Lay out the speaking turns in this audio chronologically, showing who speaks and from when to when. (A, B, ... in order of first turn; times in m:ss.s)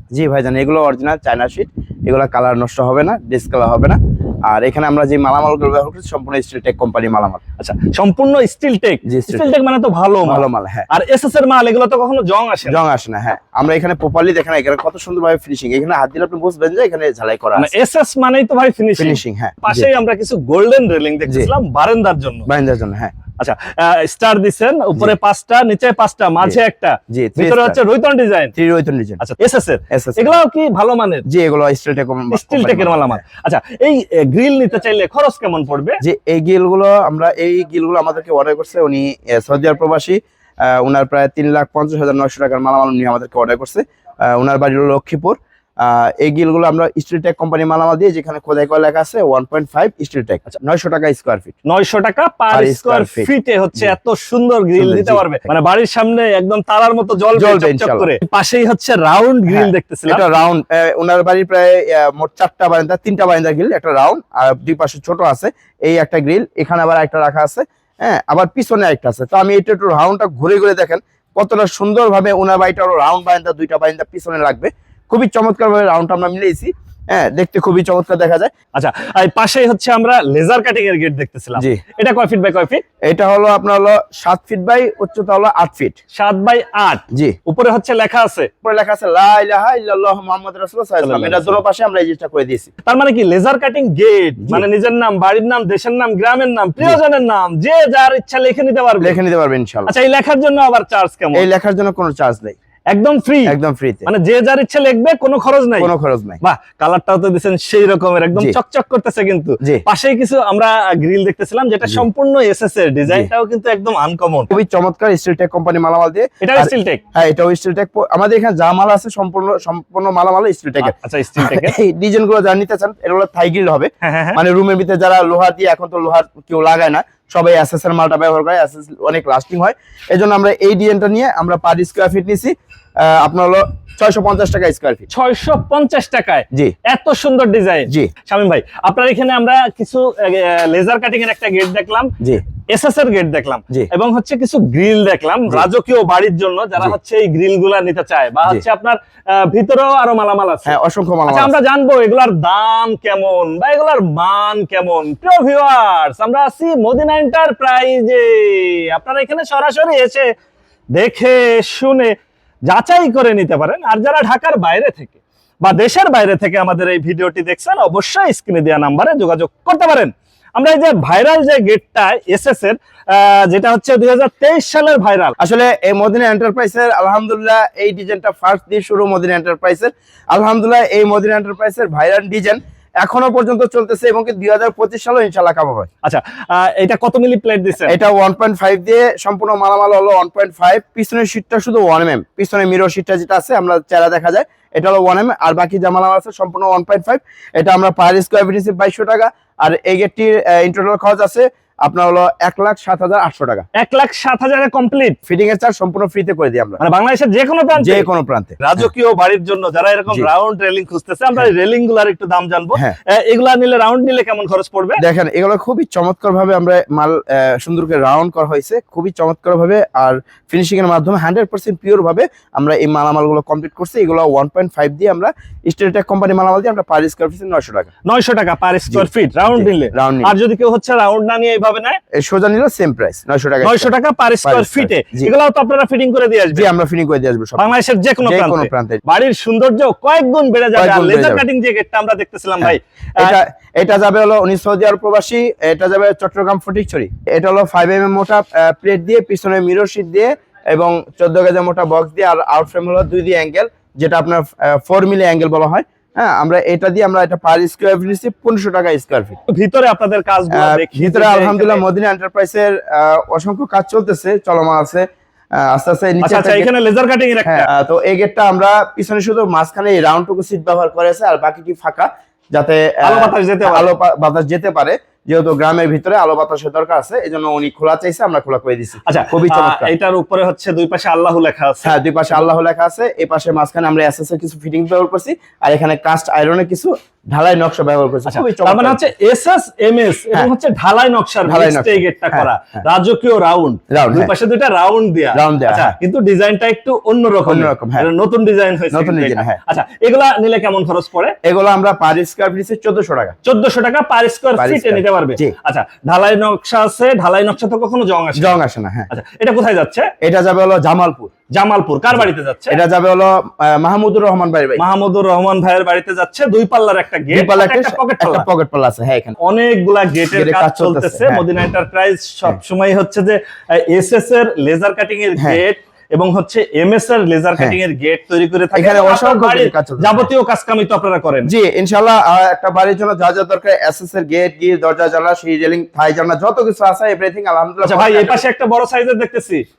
0:00.1-0:07.4 A
0:07.6-0:12.8 B
0:09.0-0:09.5 A
0:10.2-0:10.9 A
0:12.6-0:17.7 A
0:17.6-0:22.5 B
0:19.0-0:19.9 A
0:22.5-0:23.1 A
0:23.4-0:28.5 B
0:27.1-0:27.8 A
0:28.5-0:29.2 A
0:29.2-0:31.2 B
0:29.9-0:30.4 A
0:31.2-0:33.2 A
0:32.3-0:36.0 B
0:36.0-0:51.6 A
0:51.6-1:00.3 B
0:52.5-0:53.9 A
0:54.8-0:55.2 A
0:57.4-0:58.1 A
0:59.5-1:18.5 A
1:18.7-1:22.8 B
1:21.6-1:21.8 A
1:23.1-1:26.0 A
1:26.1-1:28.5 B
1:28.6-1:32.7 A
1:31.0-1:31.6 B
1:32.8-1:39.2 B
1:39.0-1:39.9 A
1:39.9-1:41.5 B
1:41.3-1:42.5 A
1:42.9-1:45.9 B
1:43.5-1:44.1 A
1:45.8-1:46.4 A
1:46.4-1:54.5 B
1:54.5-2:15.1 A
1:56.4-1:57.0 B
2:00.8-2:01.8 B
2:04.0-2:04.4 B
2:15.1-2:22.1 B
2:22.7-2:30.7 B
2:30.6-2:31.5 A
2:31.3-2:40.3 B
2:40.9-2:42.1 B
2:42.7-2:55.3 B
2:55.4-3:05.9 A
3:06.0-3:08.0 B
3:07.8-3:23.6 A
3:23.8-3:25.2 B
3:25.3-3:26.8 A
3:26.8-3:28.1 B
3:27.8-3:28.9 A
3:28.6-3:35.0 B
3:35.0-3:47.9 A
3:48.0-3:52.0 B
3:48.9-3:50.3 A
3:52.1-3:53.9 A
3:53.6-3:56.7 B
3:54.4-3:55.3 A
3:56.5-3:59.0 A
3:57.6-4:03.4 B
4:00.7-4:01.4 A
4:02.6-4:19.4 A
4:19.5-4:21.8 B
4:20.5-4:25.0 A
4:25.6-4:26.7 A
4:26.2-4:27.7 B
4:27.4-4:39.9 A
4:33.0-4:33.9 B
4:39.0-4:41.9 B
4:41.8-4:49.0 A
4:48.2-5:01.4 B
4:51.4-4:52.8 A
4:53.9-4:54.3 A
4:55.3-4:55.9 A
4:57.4-4:58.1 A
4:58.9-4:59.6 A
5:01.4-5:03.3 A
5:03.4-5:08.6 B
5:04.6-5:05.5 A
5:08.4-5:09.1 A
5:09.1-5:10.1 B
5:10.2-5:11.3 A
5:11.5-5:12.8 B
5:12.1-5:14.8 A
5:14.8-5:18.4 B
5:17.3-5:19.4 A
5:19.4-5:31.5 B
5:20.3-5:21.4 A
5:25.4-5:25.6 A
5:28.7-5:30.3 A
5:31.4-5:38.4 A
5:37.8-5:39.6 B